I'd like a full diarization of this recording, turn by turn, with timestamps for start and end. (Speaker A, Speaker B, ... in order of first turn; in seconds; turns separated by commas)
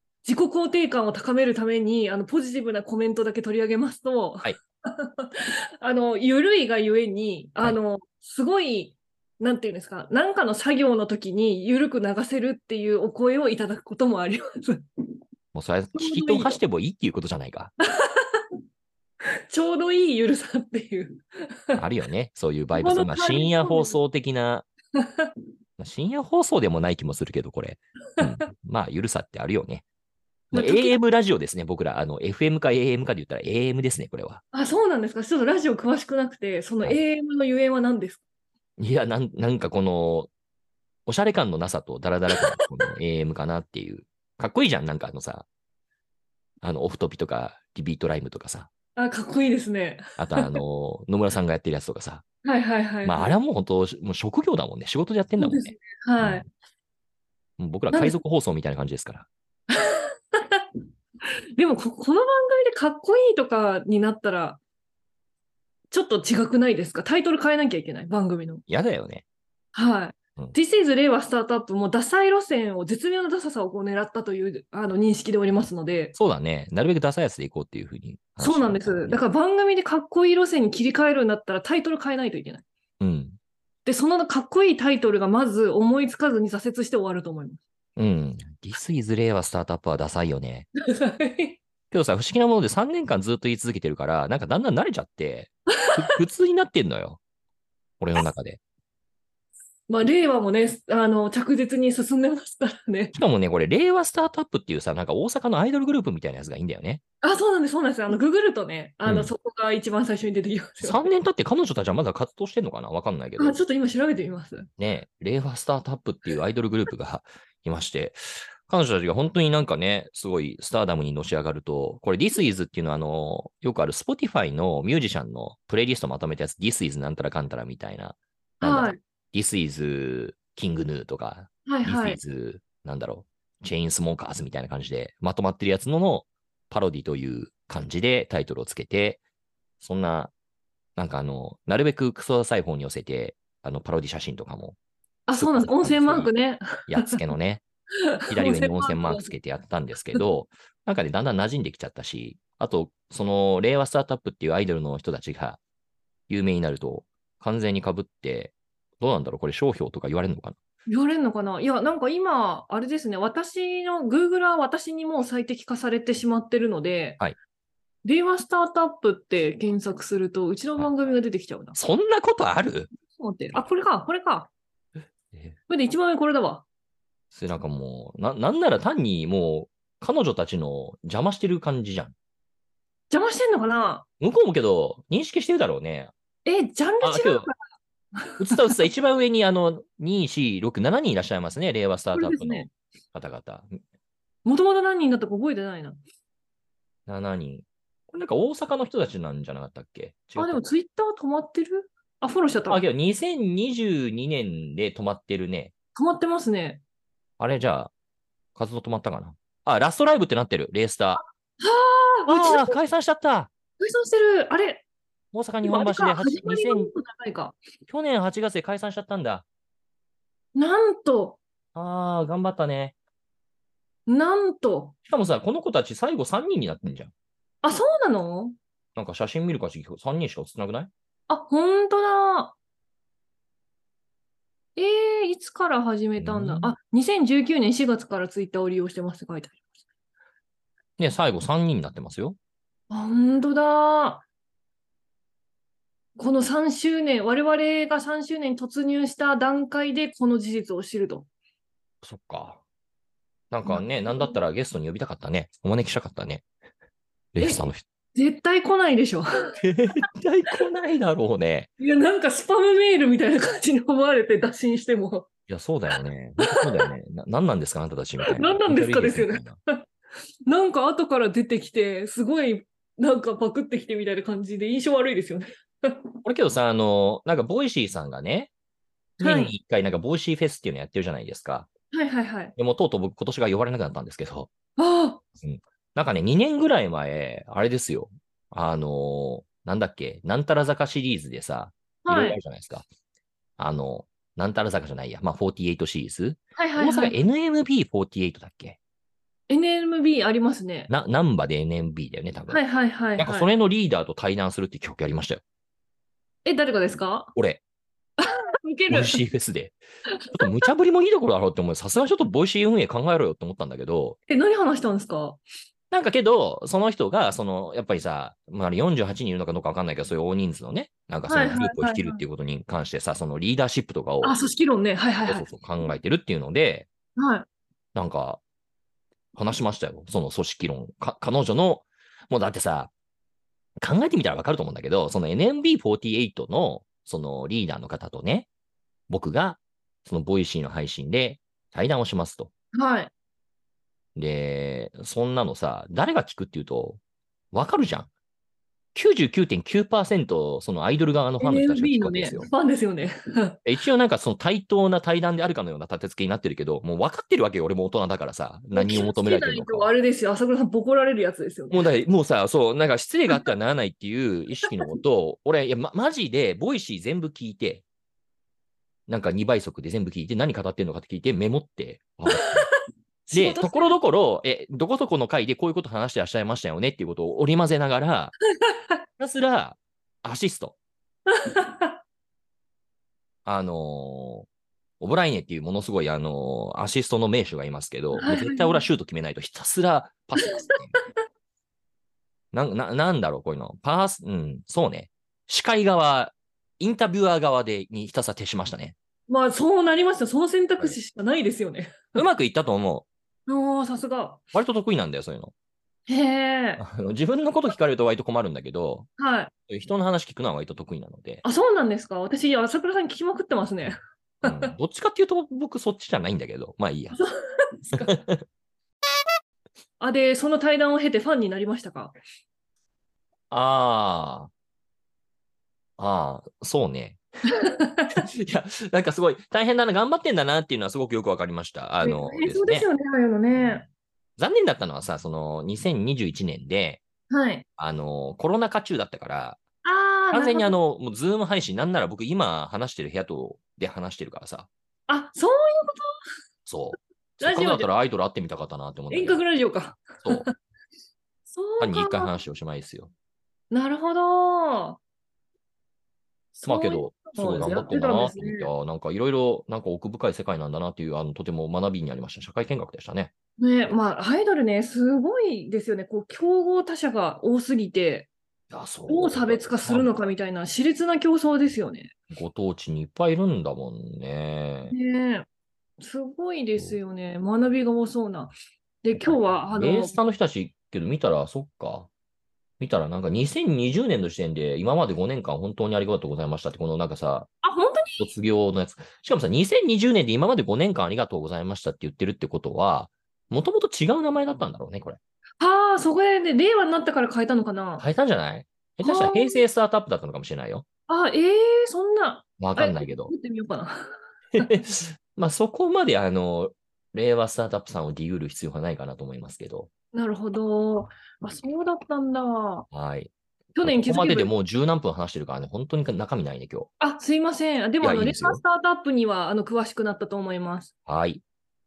Speaker A: 0.2-14.8, Speaker B: 15.5-17.7, Speaker A: 15.9-16.6, Speaker A: 17.9-18.4, Speaker A: 19.5-21.8, Speaker B: 21.7-24.7, Speaker A: 22.7-24.0, Speaker A: 25.0-25.3, Speaker B: 25.8-29.8, Speaker A: 28.2-28.5, Speaker A: 30.5-31.0, Speaker B: 30.5-34.4, Speaker A: 34.5-38.2, Speaker B: 38.8-40.3, Speaker B: 41.0-45.5, Speaker A: 42.3-42.6, Speaker B: 46.6-48.7, Speaker A: 49.0-50.6, Speaker B: 50.2-52.2, Speaker A: 52.4-53.3, Speaker B: 53.0-56.4, Speaker A: 55.4-56.5, Speaker B: 57.6-59.3, Speaker A: 57.9-58.1, Speaker A: 59.7-60.6, Speaker A: 61.6-64.6, Speaker A: 65.9-68.6, Speaker B: 68.7-69.2, Speaker A: 69.7-76.1, Speaker B: 76.1-79.2, Speaker A: 78.4-82.6, Speaker B: 83.0-83.4, Speaker A: 83.8-87.6, Speaker B: 88.0-90.7, Speaker A: 90.8-91.6, Speaker B: 91.9-97.2, Speaker B: 98.0-98.6, Speaker A: 99.9-103.1, Speaker B: 103.1-107.0, Speaker A: 107.2-111.0, Speaker B: 109.0-109.3, Speaker B: 110.8-113.5, Speaker A: 113.4-114.7, Speaker B: 114.8-139.2, Speaker A: 128.6-129.0, Speaker A: 131.7-132.2, Speaker B: 139.8-140.3, Speaker B: 140.9-144.8, Speaker A: 145.3-147.2, Speaker B: 145.3-146.3, Speaker B: 146.8-147.6, Speaker A: 148.2-149.3, Speaker B: 148.3-155.6, Speaker B: 156.3-160.6, Speaker A: 160.9-167.2, Speaker A: 168.0-171.8, Speaker B: 171.7-172.9, Speaker A: 173.2-174.5, Speaker A: 175.7-176.6, Speaker B: 177.3-182.1, Speaker A: 183.1-184.0, Speaker B: 184.2-186.1, Speaker A: 186.4-187.5, Speaker B: 187.0-187.5, Speaker A: 188.2-188.8, Speaker B: 188.4-193.7, Speaker A: 192.1-192.7, Speaker A: 194.4-196.0, Speaker B: 197.1-200.6, Speaker A: 200.4-202.8, Speaker B: 202.7-205.7, Speaker A: 205.9-206.8, Speaker B: 207.4-207.9, Speaker B: 208.5-211.2, Speaker A: 211.6-212.8, Speaker B: 212.3-213.5, Speaker A: 213.8-214.8, Speaker B: 215.3-216.9, Speaker A: 215.6-217.6, Speaker B: 217.9-219.4, Speaker A: 220.5-221.4, Speaker B: 221.7-222.9, Speaker A: 224.1-224.9, Speaker B: 225.0-227.1, Speaker A: 227.6-228.6, Speaker B: 228.9-230.9, Speaker A: 231.3-232.5, Speaker A: 234.8-239.6, Speaker B: 236.2-236.7, Speaker B: 241.0-242.4, Speaker A: 242.9-244.2, Speaker A: 246.2-251.3, Speaker B: 252.0-252.6, Speaker B: 253.5-256.4, Speaker A: 253.7-254.4, Speaker B: 257.3-257.8, Speaker A: 257.4-257.6, Speaker A: 258.1-259.5, Speaker B: 259.6-261.7, Speaker A: 261.8-265.3, Speaker B: 265.5-269.6, Speaker A: 266.4-266.9, Speaker A: 268.2-269.8, Speaker A: 270.5-276.1, Speaker B: 276.2-278.5, Speaker B: 279.2-281.7, Speaker A: 279.2-279.5, Speaker A: 281.9-282.5, Speaker B: 282.6-284.5, Speaker A: 284.8-285.2, Speaker B: 285.4-292.8, Speaker A: 292.0-292.4, Speaker B: 293.6-298.8, Speaker A: 296.6-297.2, Speaker A: 299.5-300.9, Speaker B: 300.9-302.6, Speaker A: 302.5-303.5, Speaker B: 303.2-305.4, Speaker A: 306.4-307.3, Speaker B: 307.3-307.6, Speaker A: 308.2-309.2, Speaker B: 308.9-309.8, Speaker A: 310.2-310.6, Speaker B: 310.3-314.2, Speaker A: 314.3-315.4, Speaker B: 315.9-324.4, Speaker A: 321.3-322.2, Speaker A: 324.2-325.5, Speaker B: 325.3-326.9, Speaker A: 327.2-327.4, Speaker B: 327.9-328.4, Speaker B: 329.3-332.9, Speaker B: 333.8-338.5, Speaker B: 339.1-342.5, Speaker A: 342.7-343.1, Speaker B: 344.1-347.0, Speaker B: 347.5-348.1, Speaker B: 348.9-352.5, Speaker A: 351.4-353.6, Speaker B: 353.6-359.9, Speaker A: 358.7-361.9, Speaker B: 361.7-367.8, Speaker B: 369.1-372.7, Speaker A: 373.3-374.0, Speaker B: 373.3-378.3, Speaker B: 379.2-380.8, Speaker A: 381.3-381.9, Speaker B: 383.4-384.5, Speaker B: 385.0-391.0, Speaker A: 388.1-388.8, Speaker A: 390.7-391.0, Speaker B: 392.5-398.9, Speaker A: 399.3-402.2, Speaker B: 402.1-403.1, Speaker A: 403.5-404.4, Speaker B: 404.5-405.5, Speaker A: 406.1-406.8, Speaker B: 406.8-409.1, Speaker A: 409.2-409.5, Speaker B: 409.7-411.4, Speaker A: 411.4-414.7, Speaker B: 414.4-417.2, Speaker A: 417.1-418.1, Speaker B: 417.9-418.4, Speaker A: 420.0-422.1, Speaker B: 423.5-424.5, Speaker B: 426.0-427.2, Speaker A: 427.5-428.2, Speaker B: 428.1-432.9, Speaker A: 432.0-433.9, Speaker B: 434.4-437.0, Speaker A: 437.3-437.6, Speaker B: 437.8-439.6, Speaker A: 439.8-440.7, Speaker B: 440.3-444.7, Speaker A: 445.1-446.1, Speaker B: 446.6-449.4, Speaker A: 447.4-447.9, Speaker A: 449.1-450.5, Speaker A: 451.5-452.4, Speaker B: 451.8-453.1, Speaker A: 453.7-455.0, Speaker A: 456.5-458.7, Speaker B: 456.6-463.3, Speaker A: 463.6-468.3, Speaker B: 468.7-470.1, Speaker A: 469.1-472.1, Speaker B: 472.3-474.9, Speaker A: 474.9-475.4, Speaker A: 476.0-480.2, Speaker B: 479.1-482.1, Speaker B: 482.8-487.5, Speaker A: 487.6-488.3, Speaker B: 488.2-495.2, Speaker A: 495.6-498.1, Speaker B: 498.0-500.8, Speaker A: 499.0-499.6, Speaker A: 501.1-504.7, Speaker B: 502.6-503.3, Speaker B: 504.6-509.9, Speaker A: 510.1-512.9, Speaker B: 512.9-516.9, Speaker A: 513.7-514.5, Speaker A: 517.0-520.9, Speaker B: 518.0-518.6, Speaker B: 521.1-521.4